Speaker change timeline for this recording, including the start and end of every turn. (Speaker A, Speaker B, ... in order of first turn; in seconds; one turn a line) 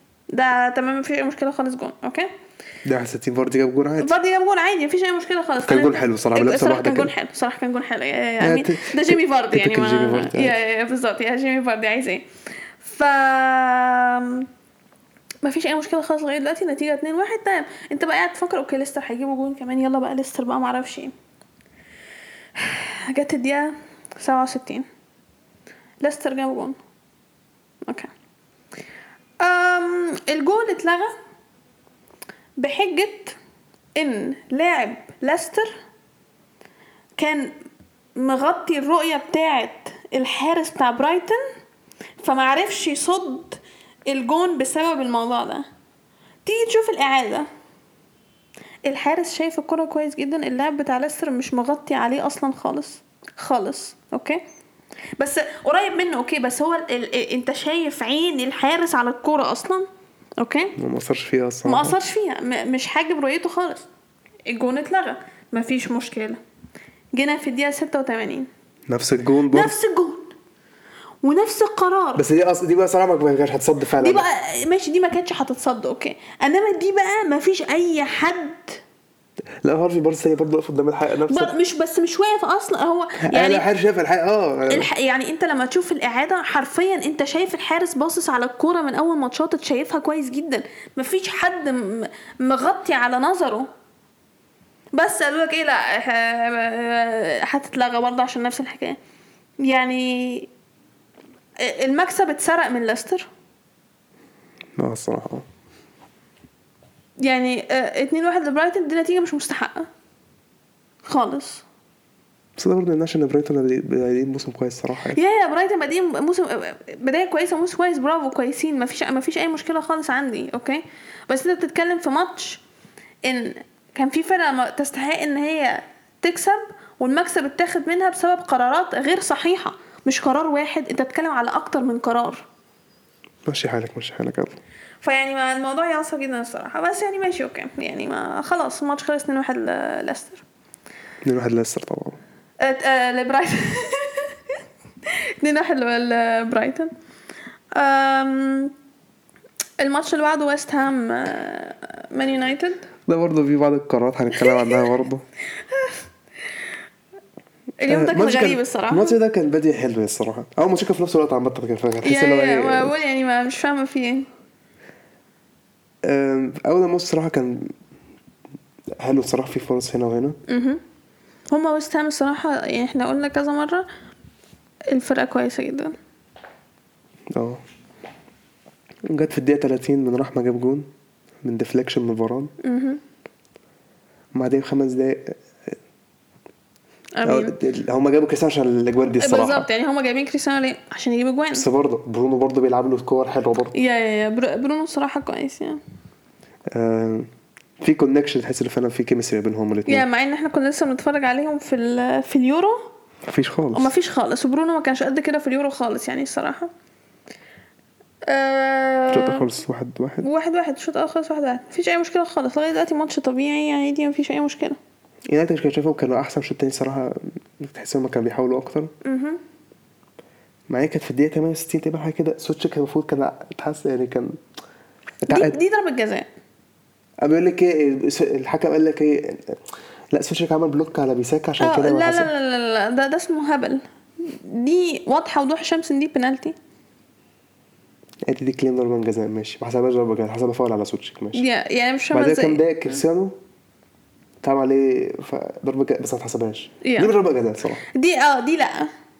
Speaker A: 0.3-2.3
Speaker B: 2.8-4.1
Speaker A: 4.0-12.2
Speaker B: 5.6-7.1
Speaker B: 8.4-10.6
Speaker A: 12.8-14.5
Speaker A: 15.4-21.1
Speaker A: 22.6-24.9
Speaker A: 26.0-26.8
Speaker A: 27.9-28.1
Speaker A: 29.4-31.1
Speaker A: 32.6-33.4
Speaker A: 34.0-35.8
Speaker A: 37.2-37.5
Speaker A: 38.1-41.4
Speaker A: 42.2-45.6
Speaker A: 46.4-47.5
Speaker A: 48.8-54.4
Speaker A: 55.2-59.9
Speaker A: 60.4-60.8
Speaker B: 60.8-62.0
Speaker A: 61.6-63.9
Speaker A: 64.5-66.4
Speaker A: 67.1-68.5
Speaker B: 68.9-69.8
Speaker A: 69.5-70.3
Speaker A: 71.2-72.2
Speaker B: 72.2-74.2
Speaker A: 74.0-78.8
Speaker B: 79.6-81.5
Speaker A: 81.3-83.7
Speaker B: 83.2-84.9
Speaker A: 84.7-93.7
Speaker A: 94.9-99.0
Speaker A: 99.6-100.5
Speaker A: 101.6-103.3
Speaker B: 104.8-105.5
Speaker A: 107.2-109.9
Speaker A: 111.0-111.6
Speaker B: 112.6-115.2
Speaker A: 115.1-122.6
Speaker A: 123.2-132.4
Speaker B: 133.4-134.6
Speaker A: 135.0-140.4
Speaker B: 141.2-142.2
Speaker A: 142.6-144.5
Speaker A: 145.1-146.9
Speaker A: 147.7-148.7
Speaker A: 149.8-152.9
Speaker B: 153.1-155.2
Speaker A: 154.3-154.9
Speaker A: 155.7-156.0
Speaker A: 157.8-159.2
Speaker B: 157.8-162.9
Speaker A: 162.0-164.3
Speaker B: 166.0-167.7
Speaker B: 169.0-170.4
Speaker A: 170.5-170.8
Speaker A: 171.5-173.8
Speaker A: 174.9-175.9
Speaker B: 177.3-177.6
Speaker B: 179.1-180.9
Speaker B: 181.4-182.5
Speaker A: 182.6-183.0
Speaker B: 184.3-185.7
Speaker A: 187.2-187.5
Speaker B: 187.2-189.7
Speaker A: 189.2-191.7
Speaker B: 191.5-193.7
Speaker A: 193.7-195.8
Speaker B: 196.7-197.3
Speaker B: 197.8-200.0
Speaker A: 199.9-202.9
Speaker B: 203.2-203.9
Speaker A: 203.7-206.7
Speaker A: 208.2-209.5
Speaker B: 209.1-210.3
Speaker A: 210.2-214.8
Speaker B: 215.3-218.9
Speaker A: 219.0-219.4
Speaker B: 220.7-224.3
Speaker B: 225.2-225.6
Speaker A: 225.3-226.3
Speaker B: 227.2-229.6
Speaker B: 230.1-232.3
Speaker A: 231.6-236.5
Speaker B: 238.2-241.4
Speaker A: 241.3-242.6
Speaker B: 242.1-243.3
Speaker B: 244.4-247.8
Speaker A: 246.8-247.1
Speaker A: 247.9-248.9